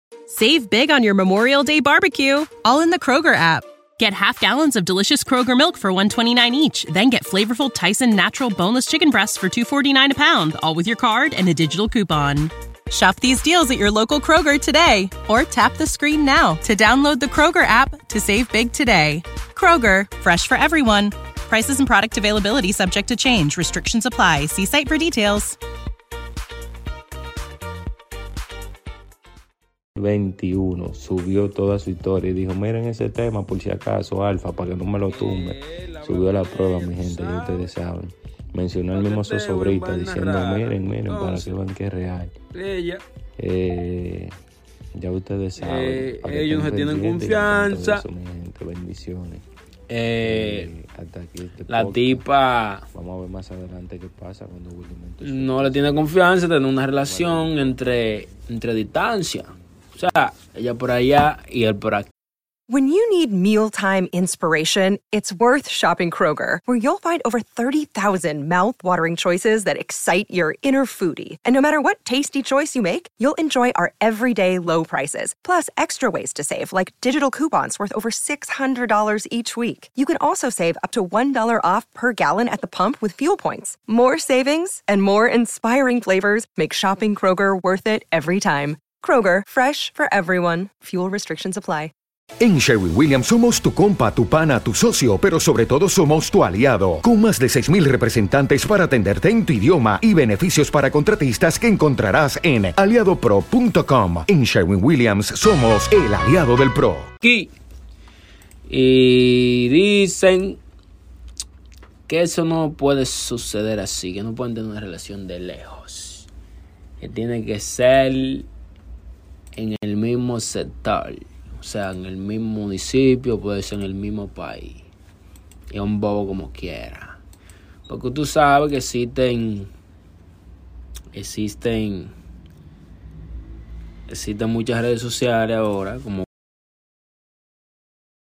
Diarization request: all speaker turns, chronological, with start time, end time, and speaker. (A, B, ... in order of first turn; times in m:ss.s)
0:00.3-0:25.6 A
0:30.0-0:42.3 B
0:35.1-0:37.7 C
0:38.9-0:41.5 C
0:42.5-0:43.0 C
0:43.4-0:44.4 B
0:44.9-0:49.4 B
0:45.6-0:48.0 C
0:49.9-0:50.7 C
0:50.2-0:52.3 B
0:51.7-0:52.8 C
0:52.9-0:56.1 B
0:55.2-1:02.1 C
0:56.9-0:58.2 B
1:02.7-1:31.9 D
1:32.4-1:47.0 E
1:47.2-1:47.5 C
1:48.7-1:50.6 C
1:52.1-1:56.3 C
1:57.0-1:58.5 C
1:59.5-2:04.8 C
2:05.7-2:07.2 C
2:07.9-2:09.7 C
2:11.1-2:12.1 C
2:14.1-2:16.2 C